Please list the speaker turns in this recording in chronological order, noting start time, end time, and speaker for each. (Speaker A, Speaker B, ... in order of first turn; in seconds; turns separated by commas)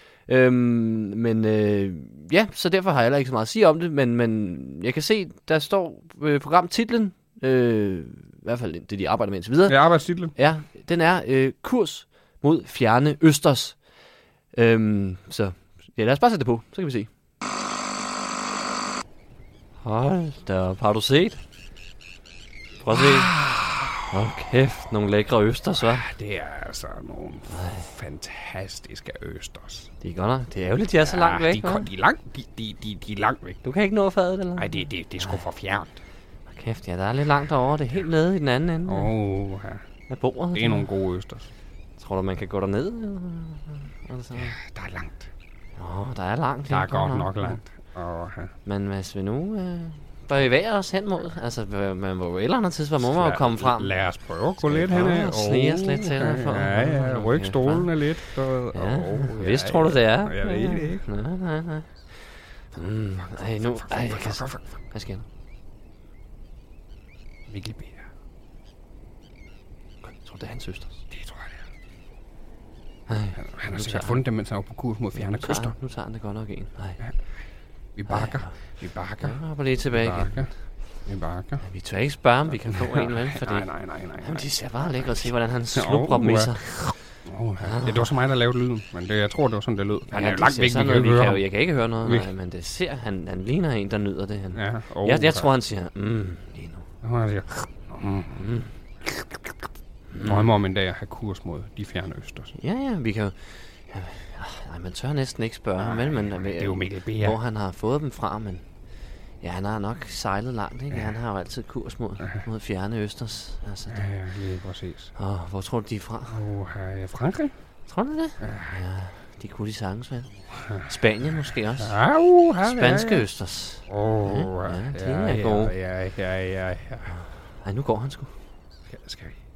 Speaker A: 0.3-9.8, Speaker B: 9.7-10.3, Speaker A: 10.3-13.8, Speaker A: 14.5-17.1, Speaker A: 19.8-21.4, Speaker A: 22.8-23.4, Speaker B: 23.1-23.6, Speaker A: 24.1-26.1, Speaker B: 25.9-29.9, Speaker A: 27.5-27.8, Speaker A: 30.0-31.9, Speaker B: 31.0-33.6, Speaker A: 33.6-35.4, Speaker B: 34.5-36.0, Speaker A: 36.5-39.1, Speaker B: 38.9-39.8, Speaker A: 40.1-40.8, Speaker B: 40.5-41.5, Speaker A: 42.0-44.6, Speaker B: 44.3-45.3, Speaker A: 45.8-47.6, Speaker B: 46.7-48.5, Speaker A: 48.6-53.9, Speaker B: 53.0-61.0, Speaker A: 54.6-57.9, Speaker A: 58.7-65.2, Speaker B: 63.3-64.7, Speaker B: 67.5-68.0, Speaker A: 70.0-71.0, Speaker B: 71.1-71.6, Speaker A: 73.1-74.2, Speaker B: 73.4-75.8, Speaker A: 75.2-77.0, Speaker B: 78.0-81.6, Speaker A: 78.1-78.6, Speaker A: 79.2-80.5, Speaker A: 81.6-87.0, Speaker B: 82.7-86.5, Speaker B: 87.2-91.4, Speaker A: 87.6-88.1, Speaker A: 90.1-96.9, Speaker B: 94.5-95.5, Speaker B: 97.0-98.4, Speaker A: 98.3-98.7, Speaker B: 99.0-99.5, Speaker A: 100.1-100.5, Speaker B: 100.2-102.5, Speaker A: 102.5-108.6, Speaker B: 105.8-107.4, Speaker A: 109.4-114.0, Speaker B: 113.9-115.1, Speaker A: 115.2-116.3, Speaker B: 116.3-117.5, Speaker A: 117.9-122.0, Speaker B: 118.4-118.8, Speaker B: 120.5-120.8, Speaker B: 121.8-123.2, Speaker A: 122.6-125.7, Speaker B: 123.9-127.1, Speaker A: 127.1-128.3, Speaker B: 128.9-129.3